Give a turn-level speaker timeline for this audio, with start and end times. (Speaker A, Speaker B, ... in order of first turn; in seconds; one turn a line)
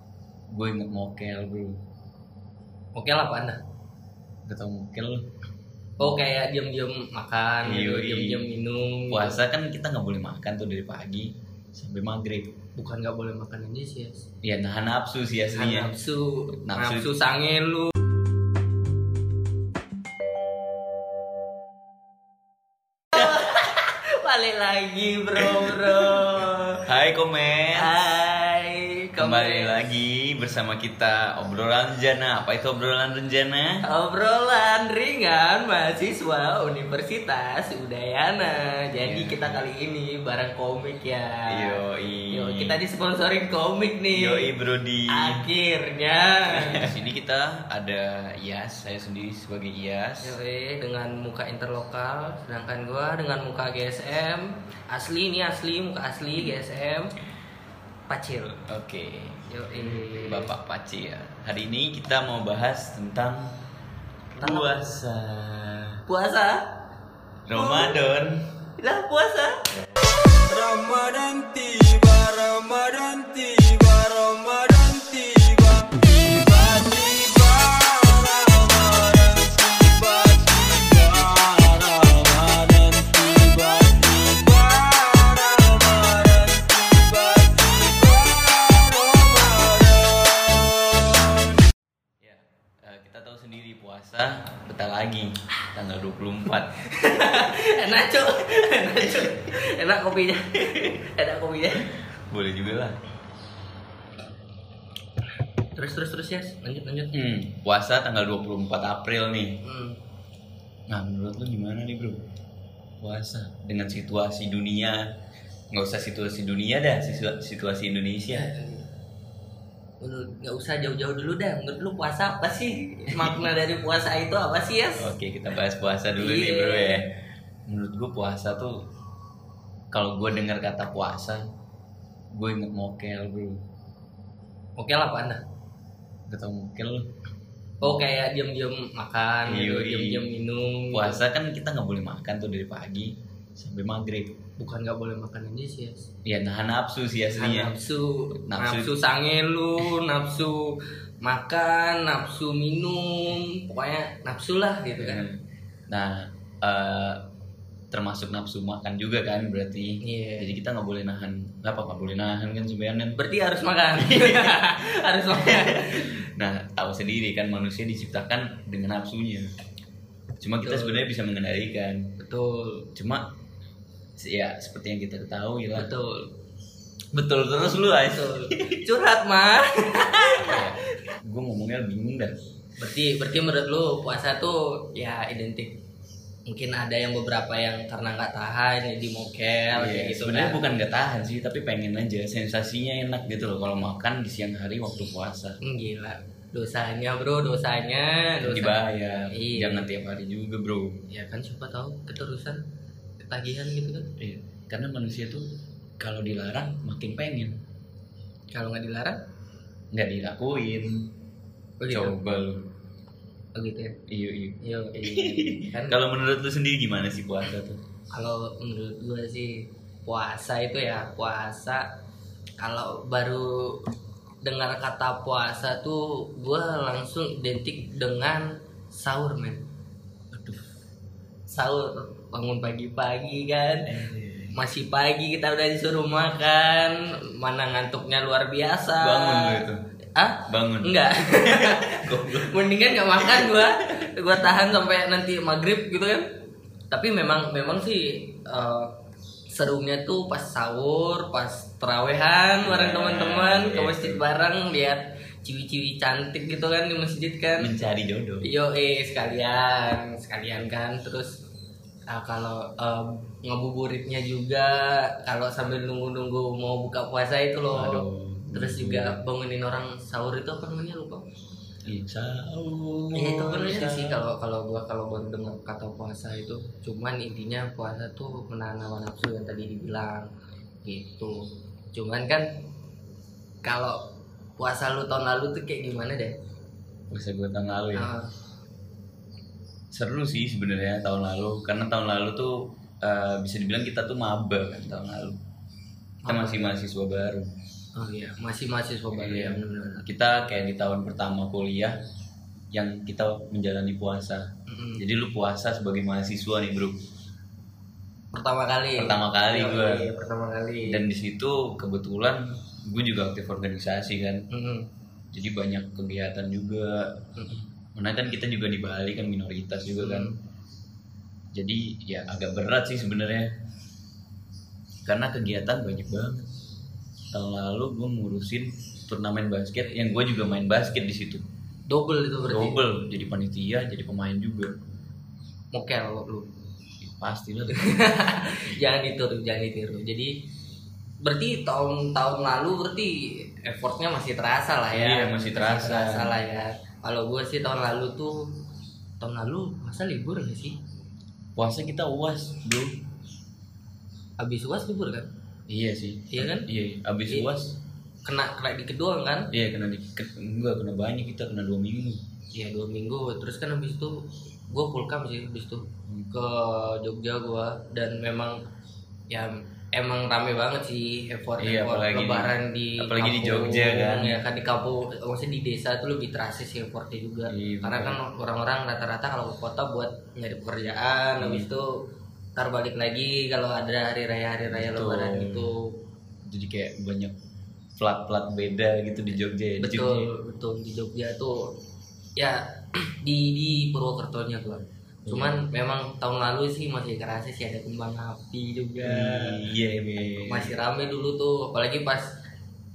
Speaker A: 0.5-1.8
Speaker B: 3.0-3.6
Speaker A: 4.5-5.3
Speaker B: 6.0-9.4
Speaker A: 7.7-8.4
Speaker A: 9.1-12.5
Speaker B: 12.8-14.3
Speaker A: 14.4-15.9
Speaker B: 15.5-17.9
Speaker A: 16.6-17.1
Speaker B: 23.1-26.9
Speaker A: 25.4-26.1
Speaker A: 26.8-27.9
Speaker B: 27.8-29.8
Speaker A: 29.2-33.8
Speaker B: 33.9-44.5
Speaker A: 39.0-39.6
Speaker A: 41.5-42.8
Speaker A: 44.1-45.4
Speaker B: 45.1-47.0
Speaker A: 46.5-50.4
Speaker B: 50.2-57.1
Speaker B: 58.1-58.6
Speaker A: 58.7-63.6
Speaker B: 59.5-60.5
Speaker A: 64.4-66.0
Speaker B: 64.4-65.0
Speaker B: 66.1-66.7
Speaker A: 67.5-68.5
Speaker B: 67.5-68.0
Speaker B: 68.8-69.7
Speaker B: 70.5-72.3
Speaker C: 71.6-74.3
Speaker B: 74.7-75.5
Speaker A: 92.2-96.8
Speaker B: 96.9-101.9
Speaker A: 102.3-103.0
Speaker B: 105.8-107.1
Speaker A: 107.1-109.6
Speaker B: 109.6-110.0
Speaker A: 110.9-112.2
Speaker A: 113.0-115.0
Speaker A: 115.7-118.5
Speaker B: 118.3-118.9
Speaker B: 120.0-125.1
Speaker A: 123.2-123.4
Speaker A: 125.0-127.1
Speaker B: 126.2-127.0
Speaker A: 127.7-128.8
Speaker A: 129.9-131.4
Speaker A: 132.4-133.6
Speaker B: 134.8-135.4
Speaker A: 136.3-137.1
Speaker B: 137.8-141.2
Speaker A: 139.5-140.2
Speaker A: 140.9-144.3
Speaker B: 144.6-146.1
Speaker A: 146.3-147.7
Speaker B: 147.3-155.2
Speaker A: 148.5-148.9
Speaker A: 155.0-155.4
Speaker A: 155.9-157.2
Speaker A: 157.9-163.2
Speaker B: 160.0-160.5
Speaker B: 163.2-166.1
Speaker A: 164.0-164.5
Speaker A: 165.3-169.5
Speaker A: 170.4-172.0
Speaker B: 170.6-171.1
Speaker B: 172.2-172.9
Speaker A: 172.9-173.3
Speaker A: 174.2-175.9
Speaker B: 175.8-176.3
Speaker A: 177.1-178.8
Speaker B: 177.9-180.9
Speaker A: 180.3-182.4
Speaker B: 182.8-185.8
Speaker B: 186.5-190.7
Speaker A: 189.7-195.6
Speaker B: 195.6-198.8
Speaker A: 198.4-201.0
Speaker B: 199.3-199.9
Speaker B: 201.1-202.6
Speaker B: 203.2-204.1
Speaker A: 204.2-205.4
Speaker A: 206.0-207.5
Speaker B: 208.5-209.2
Speaker A: 209.9-211.1
Speaker B: 211.8-212.2
Speaker A: 211.9-212.7
Speaker B: 213.6-214.0
Speaker A: 214.1-217.8
Speaker B: 214.6-216.0
Speaker B: 218.1-221.8
Speaker B: 222.6-223.9
Speaker B: 224.4-229.7
Speaker A: 230.3-230.6
Speaker B: 231.5-233.9
Speaker A: 233.9-234.6
Speaker B: 234.6-248.9
Speaker A: 239.0-239.8
Speaker A: 240.5-242.6
Speaker A: 243.2-243.9
Speaker B: 249.5-257.7
Speaker A: 252.6-254.2
Speaker A: 257.6-258.5
Speaker B: 258.4-261.4
Speaker B: 262.1-271.3
Speaker A: 267.7-269.2
Speaker A: 271.9-274.2
Speaker B: 273.1-280.3
Speaker B: 280.8-281.4
Speaker B: 281.9-282.4
Speaker B: 283.6-284.0
Speaker B: 284.6-286.4
Speaker A: 287.1-288.1
Speaker B: 288.0-288.3
Speaker A: 289.9-295.4
Speaker B: 296.2-296.8
Speaker A: 296.3-297.5
Speaker B: 297.9-300.1
Speaker A: 299.1-302.0
Speaker A: 302.7-304.5
Speaker B: 304.7-305.0
Speaker A: 305.0-307.0
Speaker B: 308.3-311.0
Speaker A: 309.0-310.1
Speaker A: 310.9-314.5
Speaker B: 314.5-314.9
Speaker A: 315.3-317.1
Speaker B: 317.4-317.7
Speaker A: 318.0-320.3
Speaker B: 320.0-320.4
Speaker A: 321.5-323.5
Speaker A: 325.1-326.5
Speaker A: 327.3-331.4
Speaker B: 331.9-332.8
Speaker A: 332.4-334.7
Speaker B: 335.7-336.5
Speaker A: 337.0-338.0
Speaker B: 337.7-340.3
Speaker B: 341.2-348.6
Speaker A: 344.9-346.3
Speaker B: 349.2-350.8
Speaker A: 351.6-352.9
Speaker B: 354.4-355.3
Speaker A: 355.7-357.8
Speaker B: 356.3-356.7
Speaker B: 358.2-359.5
Speaker A: 359.5-362.2
Speaker B: 362.5-368.6
Speaker A: 366.1-366.3
Speaker B: 369.3-381.9
Speaker A: 371.6-374.4
Speaker A: 377.5-378.2
Speaker A: 381.4-381.7
Speaker B: 382.6-385.9
Speaker A: 384.6-385.7
Speaker A: 386.5-387.4
Speaker A: 388.0-390.3
Speaker B: 389.8-391.7
Speaker B: 392.4-399.7
Speaker A: 395.3-395.6
Speaker A: 399.0-400.8
Speaker B: 400.4-402.4